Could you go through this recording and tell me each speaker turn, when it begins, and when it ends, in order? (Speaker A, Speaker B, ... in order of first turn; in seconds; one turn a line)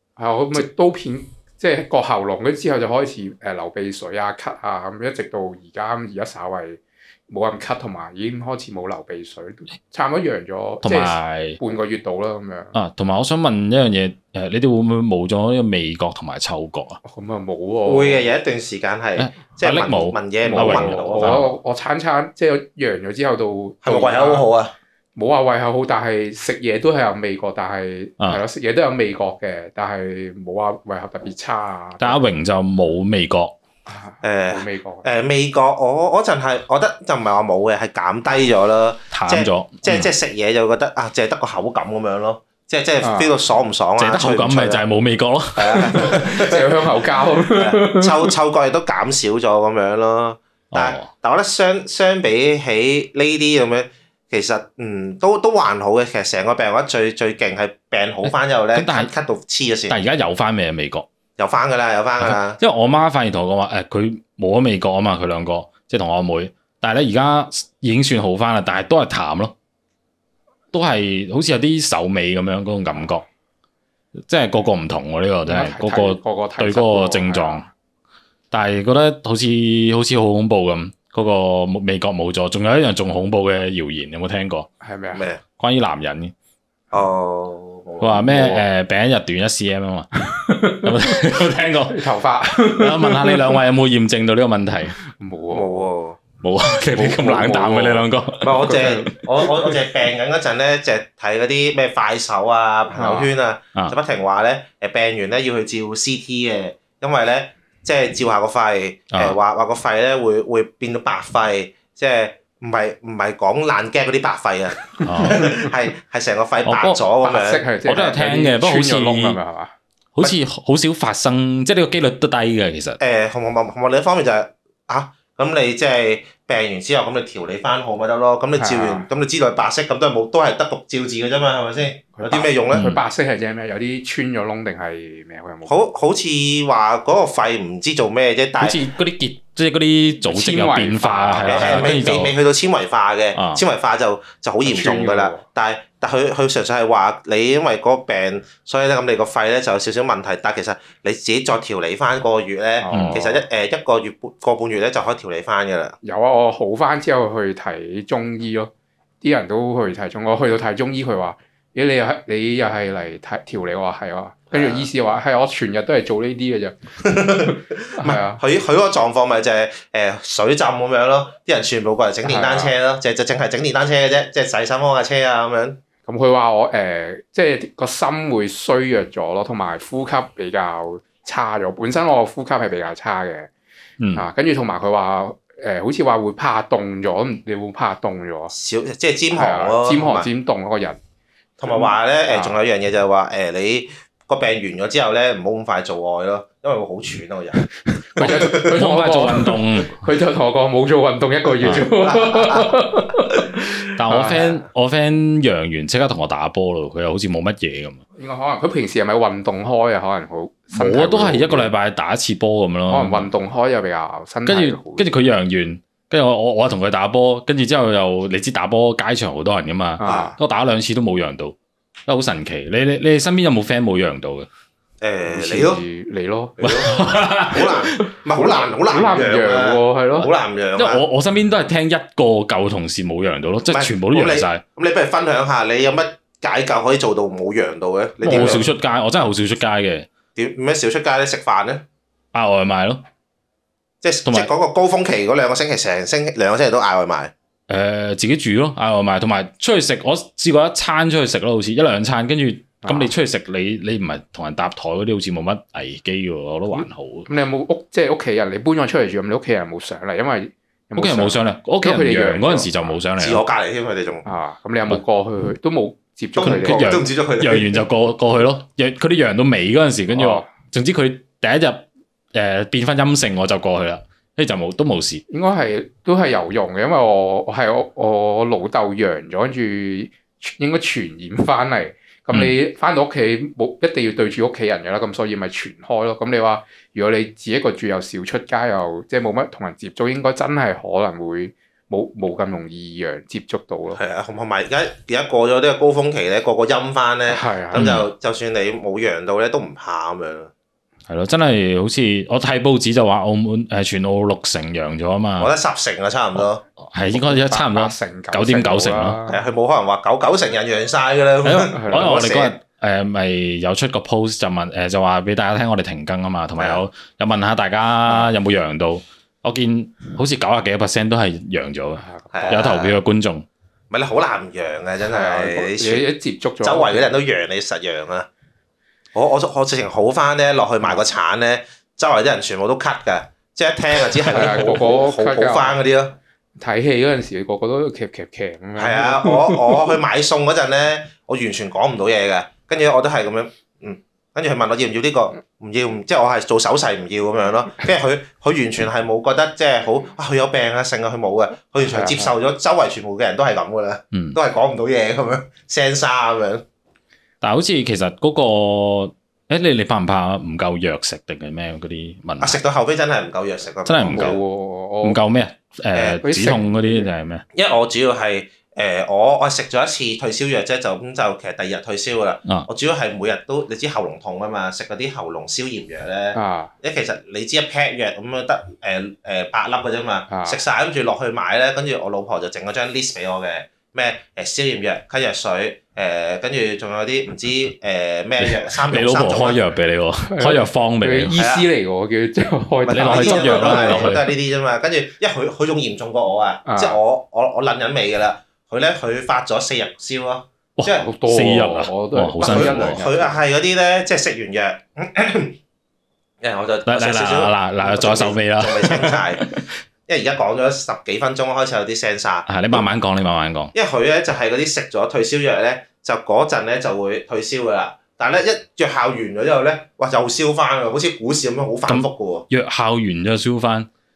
Speaker A: 0.2-12.7
Speaker B: 10.8-11.6
Speaker B: 12.7-17.0
Speaker A: 17.0-18.3
Speaker C: 17.9-21.5
Speaker B: 19.2-21.5
Speaker A: 20.4-24.4
Speaker C: 23.8-24.7
Speaker A: 25.1-32.2
Speaker B: 32.0-33.5
Speaker A: 33.9-35.1
Speaker C: 34.2-44.8
Speaker B: 39.1-40.1
Speaker A: 43.0-43.4
Speaker B: 44.0-46.1
Speaker C: 45.5-60.0
Speaker A: 45.8-48.3
Speaker B: 50.7-51.1
Speaker B: 58.2-59.1
Speaker B: 59.9-61.0
Speaker C: 61.4-62.6
Speaker B: 62.2-69.5
Speaker B: 70.7-73.2
Speaker B: 74.3-77.6
Speaker A: 75.4-77.7
Speaker B: 78.5-84.7
Speaker A: 84.8-85.2
Speaker C: 85.1-85.4
Speaker B: 85.6-86.3
Speaker C: 86.9-88.4
Speaker B: 88.0-90.1
Speaker A: 88.2-88.6
Speaker A: 90.2-91.2
Speaker B: 90.8-92.1
Speaker A: 91.9-93.6
Speaker B: 92.7-95.0
Speaker A: 95.1-95.9
Speaker C: 95.5-96.2
Speaker B: 96.4-98.5
Speaker A: 96.9-98.1
Speaker C: 98.4-118.1
Speaker A: 98.6-99.8
Speaker A: 102.9-103.3
Speaker B: 109.1-109.4
Speaker B: 115.0-115.4
Speaker B: 116.6-117.0
Speaker A: 117.2-119.7
Speaker B: 117.8-119.4
Speaker B: 120.1-123.0
Speaker C: 123.0-132.8
Speaker A: 128.6-129.1
Speaker A: 132.1-135.8
Speaker B: 132.7-133.0
Speaker C: 135.7-138.8
Speaker B: 138.6-142.3
Speaker A: 140.2-142.0
Speaker C: 141.4-156.0
Speaker B: 143.3-143.6
Speaker A: 144.6-145.4
Speaker A: 152.8-153.4
Speaker B: 152.9-153.2
Speaker A: 156.0-158.7
Speaker A: 159.2-168.4
Speaker C: 164.5-164.9
Speaker C: 167.0-175.8
Speaker A: 172.2-172.8
Speaker A: 176.1-183.5
Speaker B: 184.0-184.2
Speaker A: 184.1-188.5
Speaker C: 188.5-190.3
Speaker A: 189.3-191.0
Speaker C: 191.6-197.6
Speaker A: 191.7-192.6
Speaker A: 197.8-204.6
Speaker C: 198.2-198.8
Speaker B: 198.2-200.0
Speaker C: 202.0-202.7
Speaker B: 204.0-208.0
Speaker A: 208.2-211.7
Speaker B: 210.7-213.3
Speaker A: 212.9-215.2
Speaker B: 214.4-221.6
Speaker A: 220.0-220.4
Speaker C: 220.0-220.3
Speaker B: 222.1-224.5
Speaker C: 225.0-225.8
Speaker A: 225.2-226.6
Speaker C: 226.6-231.0
Speaker B: 226.6-228.0
Speaker A: 227.5-230.3
Speaker B: 230.8-234.6
Speaker C: 233.7-238.7
Speaker B: 238.2-240.1
Speaker A: 238.2-238.6
Speaker C: 240.3-241.8
Speaker B: 242.3-243.0
Speaker C: 244.0-247.3
Speaker B: 247.7-257.3
Speaker A: 252.8-253.1
Speaker A: 256.7-263.0
Speaker B: 261.0-263.4
Speaker C: 263.2-264.2
Speaker A: 264.2-267.0
Speaker C: 266.4-267.8
Speaker B: 266.4-275.2
Speaker A: 270.1-270.5
Speaker A: 275.3-294.0
Speaker C: 293.9-300.5
Speaker A: 297.3-298.0
Speaker B: 297.7-298.0
Speaker B: 301.1-305.5
Speaker C: 305.4-306.6
Speaker B: 306.4-309.1
Speaker A: 307.1-309.4
Speaker C: 309.3-312.5
Speaker B: 311.4-323.4
Speaker A: 311.7-312.1
Speaker A: 318.1-318.4
Speaker A: 322.0-322.6
Speaker C: 322.3-323.0
Speaker C: 323.9-326.1
Speaker A: 325.0-327.1
Speaker C: 326.6-328.3
Speaker C: 329.1-336.2
Speaker A: 334.2-335.8
Speaker A: 336.6-339.9
Speaker C: 338.8-356.6
Speaker A: 351.8-352.3
Speaker B: 354.1-354.4
Speaker B: 357.4-362.6
Speaker C: 362.4-364.4
Speaker B: 363.8-364.4
Speaker A: 364.0-365.2
Speaker B: 365.0-367.4
Speaker C: 365.9-366.2
Speaker A: 366.2-367.1
Speaker C: 367.5-389.6
Speaker A: 376.3-376.7
Speaker A: 380.3-380.6
Speaker B: 388.4-391.3
Speaker A: 390.3-394.1
Speaker C: 391.4-391.7
Speaker C: 392.9-401.0
Speaker B: 392.9-394.3
Speaker A: 396.6-397.0
Speaker B: 400.8-403.0
Speaker A: 400.8-403.4
Speaker C: 402.4-405.6
Speaker C: 406.4-409.4
Speaker B: 406.9-409.6
Speaker C: 410.1-412.8
Speaker B: 412.5-413.7
Speaker C: 413.7-422.5
Speaker B: 421.9-423.9